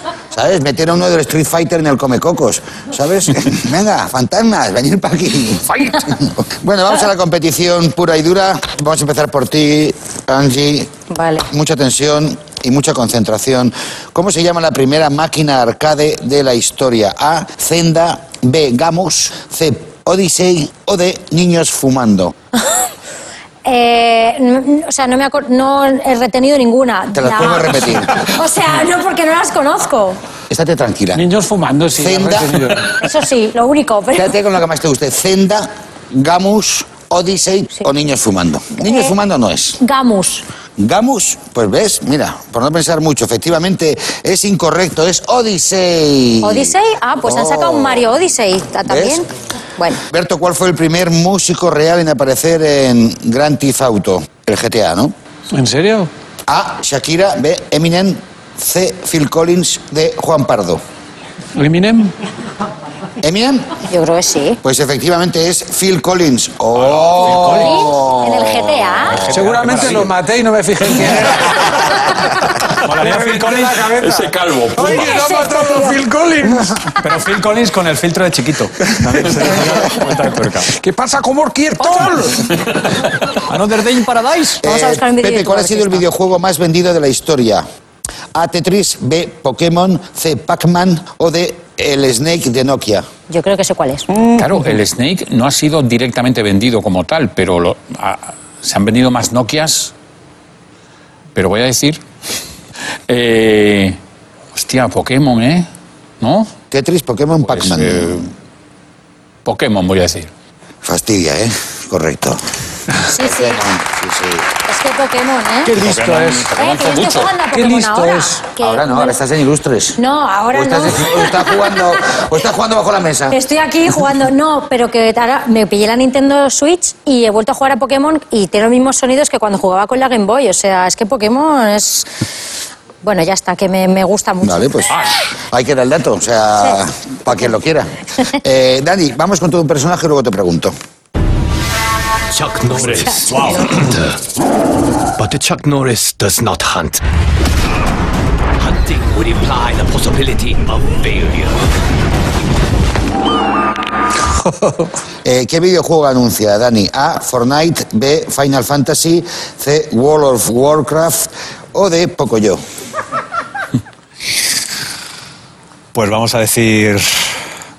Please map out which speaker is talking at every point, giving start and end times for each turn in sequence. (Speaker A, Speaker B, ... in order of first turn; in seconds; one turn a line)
Speaker A: 0.3-10.9
Speaker B: 11.1-11.5
Speaker A: 11.5-22.3
Speaker B: 22.6-22.9
Speaker B: 23.6-30.2
Speaker A: 27.1-28.3
Speaker A: 30.5-31.2
Speaker C: 31.1-33.0
Speaker A: 32.0-32.8
Speaker B: 33.0-34.3
Speaker A: 34.1-39.8
Speaker B: 38.8-39.2
Speaker B: 39.8-40.5
Speaker A: 40.8-48.1
Speaker B: 46.4-50.0
Speaker A: 48.9-49.2
Speaker A: 50.1-55.1
Speaker C: 55.5-56.1
Speaker A: 56.5-60.8
Speaker C: 61.5-62.1
Speaker A: 63.2-63.7
Speaker B: 63.9-64.6
Speaker A: 64.6-69.2
Speaker D: 66.8-67.5
Speaker E: 67.2-67.8
Speaker B: 67.4-69.2
Speaker E: 69.2-70.1
Speaker C: 69.2-77.0
Speaker D: 69.3-69.9
Speaker E: 72.8-74.0
Speaker D: 74.0-75.2
Speaker B: 74.8-76.0
Speaker E: 77.0-80.7
Speaker C: 78.9-82.8
Speaker E: 83.5-84.6
Speaker A: 84.6-87.7
Speaker B: 84.6-86.0
Speaker A: 88.3-93.1
Speaker B: 93.3-94.1
Speaker C: 94.2-94.5
Speaker D: 94.3-99.9
Speaker D: 101.3-102.0
Speaker D: 103.1-104.0
Speaker D: 104.5-105.7
Speaker D: 106.2-106.5
Speaker A: 106.7-108.3
Speaker D: 107.5-108.3
Speaker D: 109.5-110.3
Speaker A: 110.8-112.4
Speaker A: 113.0-114.5
Speaker B: 113.1-113.6
Speaker B: 114.7-115.8
Speaker C: 115.7-116.5
Speaker D: 115.8-117.3
Speaker B: 116.5-119.2
Speaker C: 117.5-118.4
Speaker A: 118.6-120.0
Speaker B: 120.0-121.8
Speaker A: 120.5-123.4
Speaker B: 123.3-132.1
Speaker B: 133.0-134.8
Speaker A: 134.4-140.8
Speaker F: 142.3-144.2
Speaker F: 145.2-147.0
Speaker F: 148.6-151.6
Speaker A: 155.2-162.6
Speaker E: 165.9-167.4